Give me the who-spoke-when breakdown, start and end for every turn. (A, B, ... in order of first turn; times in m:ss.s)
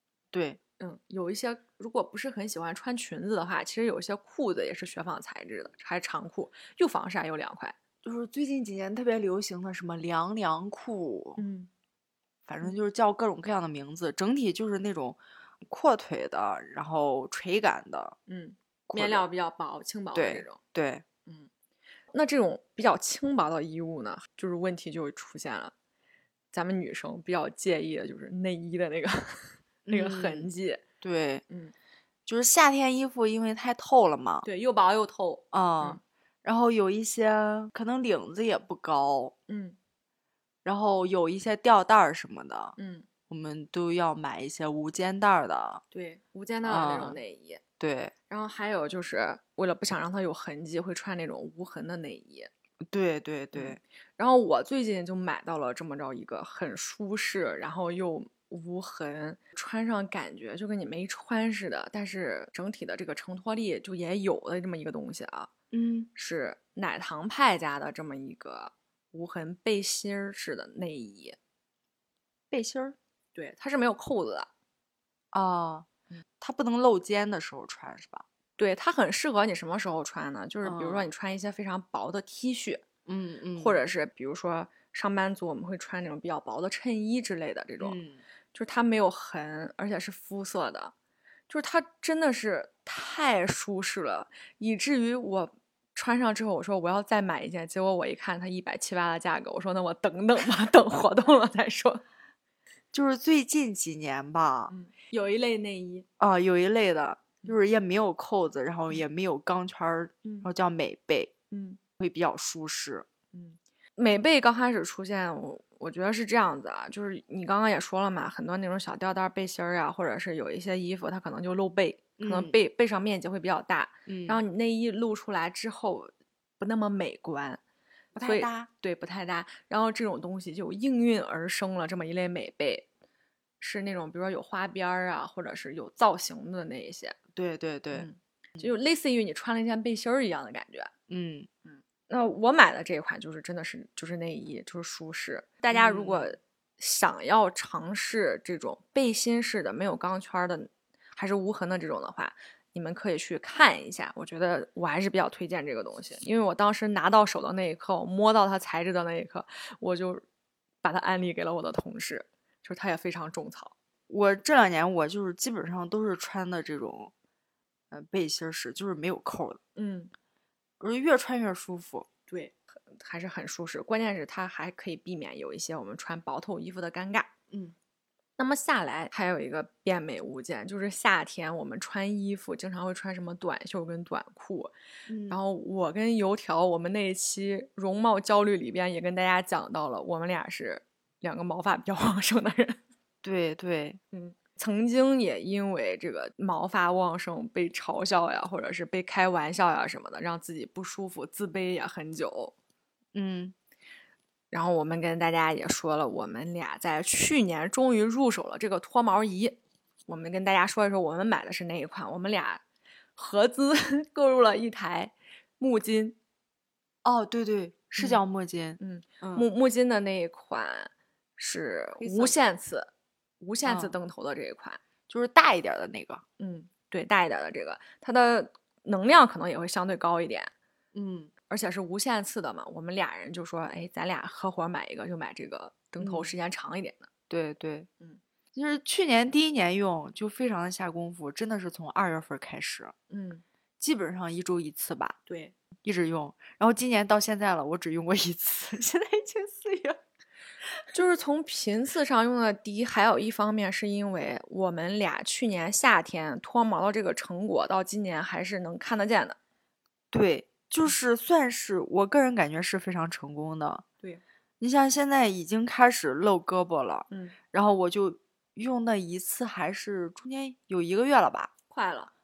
0:00.3-0:00.6 A
0:00.8-0:07.7 B
0:08.0-0:11.4 A
0:11.4-0:11.7 B
0:12.4-0:18.2 A
0:18.3-0:20.6 B
0:18.9-0:19.3 A
0:20.1-0:21.0 A
0:22.1-0:25.7 B
0:26.5-0:30.8 B
0:29.8-0:30.5 A
0:31.0-0:31.4 A
0:32.3-0:34.4 A
0:34.4-0:36.0 B
0:35.5-0:39.3 A
0:39.5-0:39.8 B
0:40.6-0:42.8 A
0:42.8-0:43.1 B
0:43.3-0:45.8 A
0:45.9-0:47.6 B
0:46.6-0:47.2 A
0:47.8-0:48.1 A
0:48.3-0:52.5 B
0:52.8-0:53.8 A
0:53.5-1:05.5 B
1:05.7-1:06.1 A
1:06.2-1:11.4 B
1:12.5-1:13.0 A
1:13.3-1:14.5 B
1:15.3-1:15.9 A
1:16.4-1:18.2 A
1:18.6-1:22.8 B
1:20.6-1:21.0 A
1:23.0-1:23.8 A
1:23.6-1:28.0 B
1:27.8-1:28.2 A
1:28.5-1:30.9 B
1:31.5-1:42.0 B
1:42.9-1:44.7 A
1:44.7-1:46.0 B
1:46.2-1:51.3 A
1:51.5-1:51.8 B
1:52.0-1:53.1 A
1:53.3-2:07.6 B
2:02.2-2:02.6 A
2:04.1-2:04.4 A
2:08.1-2:08.7 A
2:08.2-2:12.8 B
2:13.6-2:17.2 B
2:17.3-2:18.7 A
2:17.9-2:20.9 B
2:21.1-2:21.5 A
2:21.7-2:40.2 B
2:25.7-2:26.3 A
2:40.8-2:43.7 B
2:44.1-2:47.1 A
2:47.9-2:49.6 A
2:49.8-2:50.1 B
2:50.8-2:52.1 A
2:52.3-2:57.3 B
2:57.5-2:57.7 A
2:58.4-3:04.7 B
3:05.1-3:05.4 A
3:05.3-3:12.8 B
3:13.2-3:14.0 A
3:14.1-3:22.5 B
3:23.1-3:23.5 A
3:24.5-3:32.6 B
3:33.2-3:36.2 B
3:37.0-3:39.5 A
3:38.8-3:44.8 B
3:42.0-3:42.4 A
3:43.6-3:43.9 A
3:45.1-3:46.2 A
3:46.4-3:50.5 B
3:50.9-3:51.3 A
3:51.5-3:57.1 B
3:56.0-3:56.3 A
3:57.3-3:57.9 A
3:58.5-4:02.9 A
4:03.1-4:03.4 B
4:03.8-4:05.2 A
4:05.3-4:05.5 B
4:05.8-4:10.0 A
4:10.9-4:19.4 B
4:20.1-4:23.8 A
4:24.6-4:31.5 A
4:27.1-4:27.4 B
4:31.7-4:32.1 B